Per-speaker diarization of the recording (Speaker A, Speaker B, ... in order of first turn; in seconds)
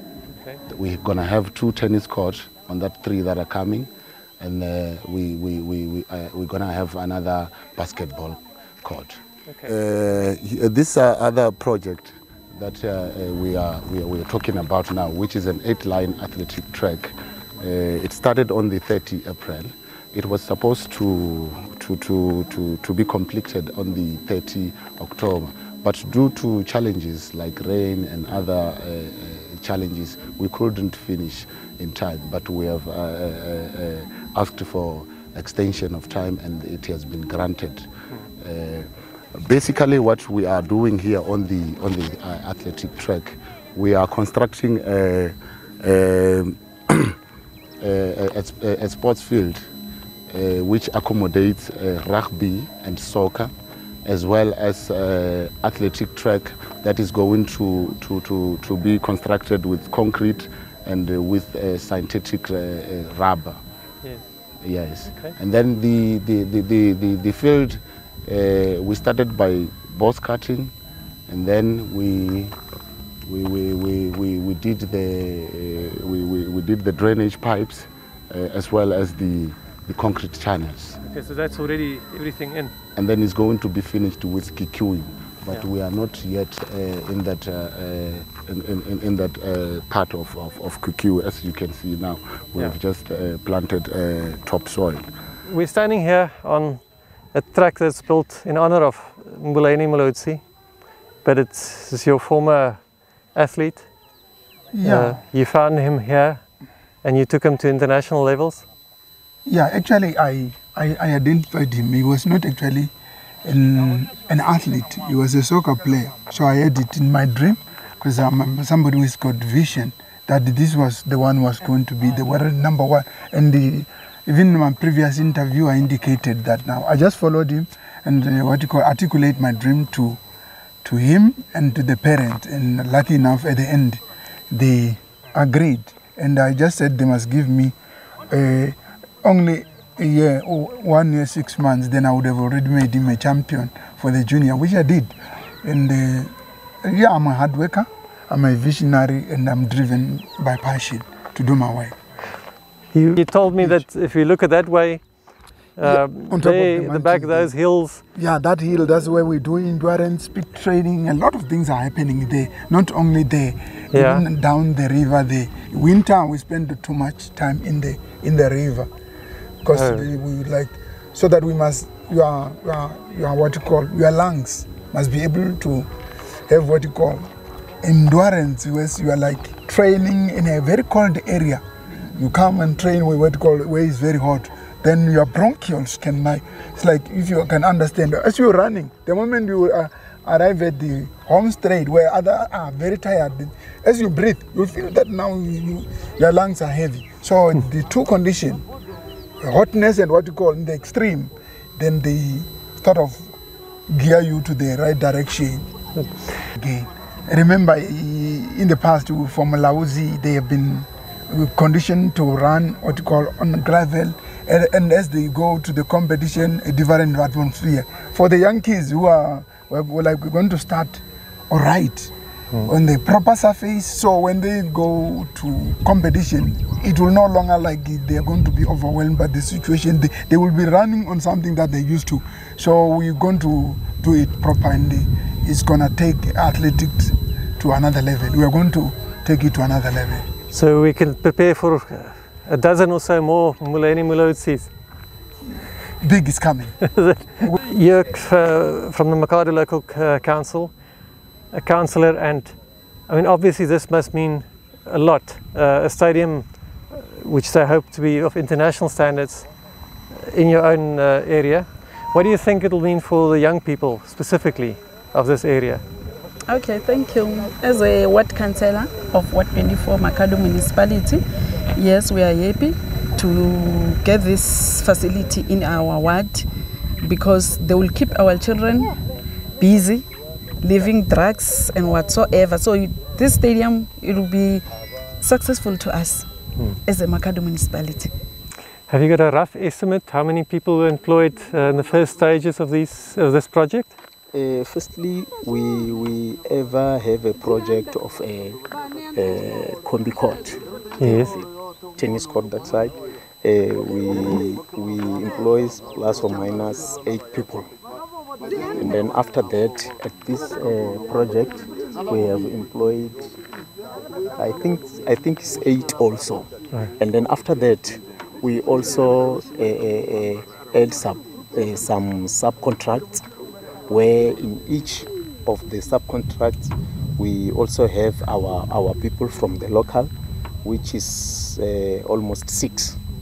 Speaker A: 0.3-0.6, 9.5-9.7, 64.0-64.3, 65.1-65.3, 81.0-82.7, 95.5-96.8, 97.3-100.4, 101.2-102.8, 103.3-103.9, 104.8-106.4, 107.0-108.7, 152.9-155.0, 155.8-158.0, 163.9-164.2, 169.7-170.1, 240.5-244.7, 246.9-250.7, 251.5-252.6, 253.1-259.5, 260.1-265.8, 288.9-294.0, 301.0-301.3
Speaker B: 0.7-47.2, 47.8-49.6, 50.3-53.5, 54.0-63.6, 64.6-70.7, 71.3-72.6, 73.2-81.0, 83.0-95.1
Speaker C: 104.7-105.2, 109.5-112.9, 113.4-130.2, 130.8-137.8, 138.3-146.3, 146.8-151.9, 153.6-153.8, 155.8-157.5, 158.1-168.9, 169.6-175.9, 176.5-177.2, 177.8-181.6, 182.2-198.6, 199.4-203.2, 203.9-205.6, 206.5-222.1, 222.6-240.3, 246.0-247.6
Speaker D: 266.5-271.2, 271.7-276.5, 277.0-278.9, 279.6-280.1, 280.6-284.6, 285.2-286.3, 286.8-288.1
Speaker E: 294.3-298.6, 299.1-307.7, 308.8-313.3, 314.4-323.2, 323.9-330.1, 330.6-333.0